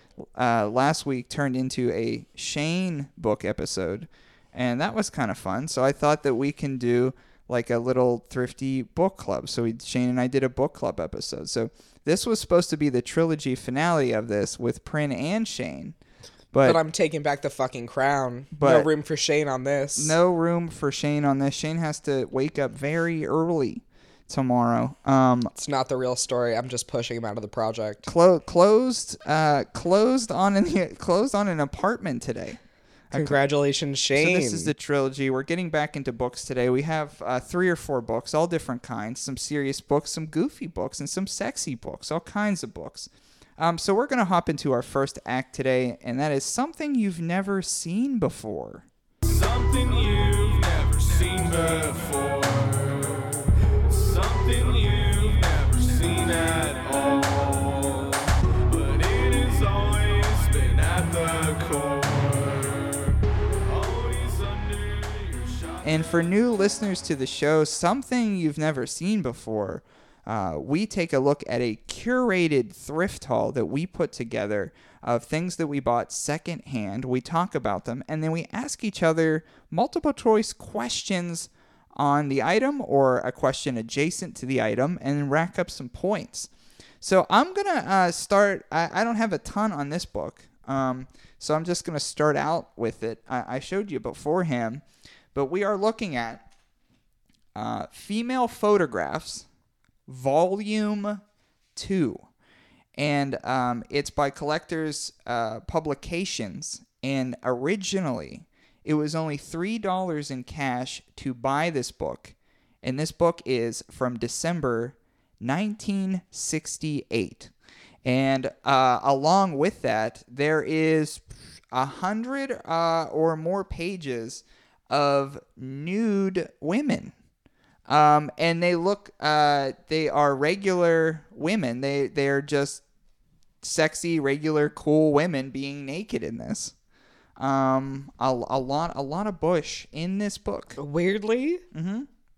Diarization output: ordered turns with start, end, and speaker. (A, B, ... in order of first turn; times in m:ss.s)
0:00.4-0:15.9 A
0:16.5-0:16.8 A
0:16.6-0:20.2 B
0:18.5-0:18.9 A
0:20.0-0:25.5 A
0:25.5-0:28.1 B
0:28.0-0:32.6 A
0:33.1-0:33.4 A
0:33.1-0:34.7 B
0:34.1-0:48.8 A
0:49.2-0:53.3 C
0:53.9-1:03.1 C
1:03.7-1:05.8 C
1:05.8-1:26.5 A
1:27.0-1:34.8 A
1:35.3-1:36.4 A
1:37.5-1:39.4 A
1:40.1-1:41.2 A
1:41.7-1:42.2 A
1:43.0-1:57.5 A
1:58.0-2:07.1 A
2:07.9-2:12.8 A
2:13.6-2:16.7 A
2:17.4-2:20.8 A
2:20.8-2:21.6 B
2:21.7-2:22.1 A